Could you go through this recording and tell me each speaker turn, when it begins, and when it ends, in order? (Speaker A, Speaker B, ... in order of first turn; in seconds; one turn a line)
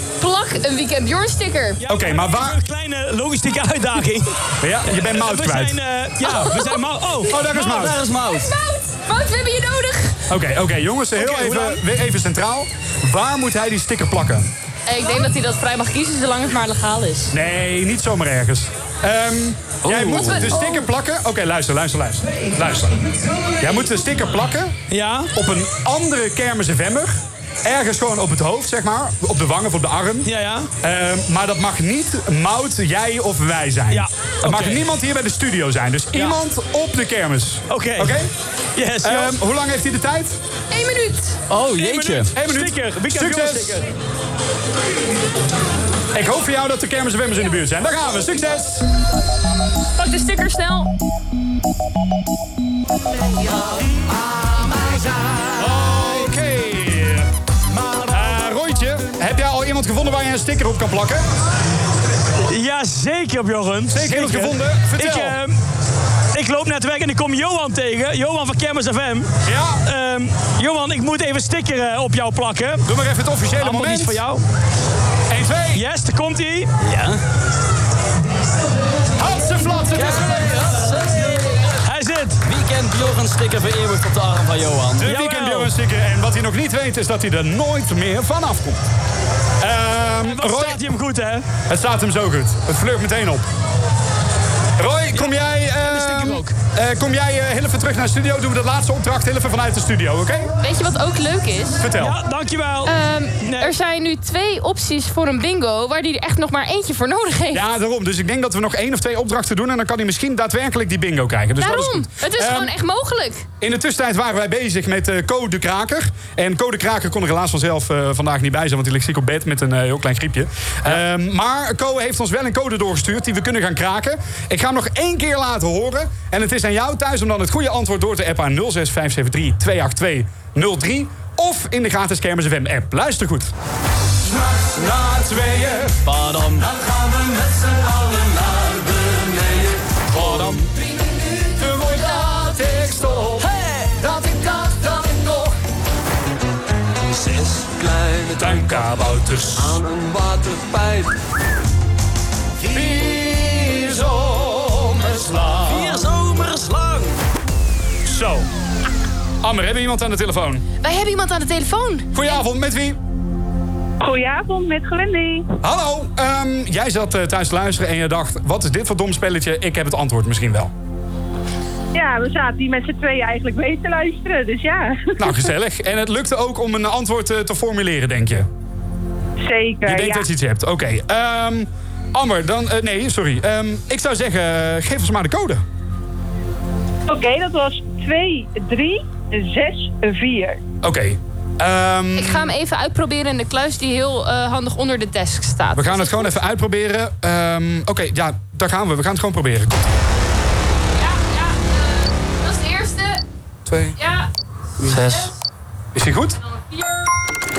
Speaker A: 0.2-1.8
Speaker B: 1.8-4.3
Speaker C: 1.9-2.6
Speaker C: 4.6-5.8
Speaker B: 4.9-7.4
Speaker A: 6.2-6.8
Speaker C: 7.3-8.0
Speaker D: 7.5-8.5
Speaker A: 8.3-10.2
Speaker C: 10.3-14.5
Speaker B: 11.2-11.8
Speaker A: 14.9-17.3
Speaker C: 17.3-23.0
Speaker B: 19.9-20.5
Speaker A: 20.2-20.8
Speaker C: 23.6-24.8
Speaker B: 24.9-25.3
Speaker C: 25.3-30.3
Speaker B: 30.2-30.7
Speaker C: 30.8-38.3
Speaker B: 33.9-34.8
Speaker B: 37.7-38.2
Speaker B: 38.8-39.4
Speaker C: 39.0-40.4
Speaker A: 40.7-41.4
Speaker D: 41.5-42.3
Speaker B: 41.7-43.9
Speaker C: 42.4-43.8
Speaker C: 46.1-48.9
Speaker A: 50.0-50.9
Speaker E: 54.5-55.5
Speaker C: 55.5-57.3
Speaker B: 57.8-58.1
Speaker C: 58.1-61.2
Speaker B: 62.5-65.5
Speaker C: 63.9-65.4
Speaker B: 66.3-69.3
Speaker C: 69.5-69.8
Speaker B: 69.8-72.8
Speaker C: 72.8-74.2
Speaker B: 73.6-74.4
Speaker C: 75.3-75.8
Speaker B: 75.7-76.7
Speaker D: 76.8-77.2
Speaker C: 79.2-80.6
Speaker D: 79.9-81.8
Speaker B: 81.8-82.4
Speaker D: 82.4-85.1
Speaker C: 85.0-88.8
Speaker B: 85.0-85.7
Speaker C: 89.6-90.8
Speaker B: 90.2-91.5
Speaker C: 91.7-93.5
Speaker C: 94.8-100.5
Speaker B: 95.8-96.5
Speaker A: 100.6-101.8
Speaker C: 101.8-102.2
Speaker B: 102.0-103.7
Speaker A: 102.8-107.6
Speaker C: 107.5-112.7
Speaker A: 111.6-113.5
Speaker C: 113.6-133.5
Speaker C: 134.6-136.0
Speaker D: 136.0-136.7
Speaker E: 136.8-140.0
Speaker C: 140.1-140.7
Speaker D: 140.2-140.6
Speaker C: 141.3-143.5
Speaker C: 144.0-145.5
Speaker E: 147.1-151.1
Speaker C: 148.4-149.8
Speaker C: 152.7-155.9
Speaker D: 155.6-157.1
Speaker C: 158.0-158.5
Speaker C: 159.4-160.6
Speaker A: 160.8-162.4
Speaker C: 162.1-163.0
Speaker F: 164.0-165.5
Speaker C: 165.6-170.7
Speaker F: 171.9-175.5
Speaker C: 175.2-178.5
Speaker F: 179.4-180.3
Speaker C: 179.8-185.6
Speaker F: 187.1-190.6
Speaker C: 190.8-192.5
Speaker A: 192.2-196.3
Speaker C: 195.7-199.8
Speaker A: 200.9-203.2
Speaker C: 203.7-204.0
Speaker A: 204.0-204.3
Speaker D: 204.8-205.3
Speaker A: 204.9-205.3
Speaker C: 205.9-206.4
Speaker A: 206.4-207.2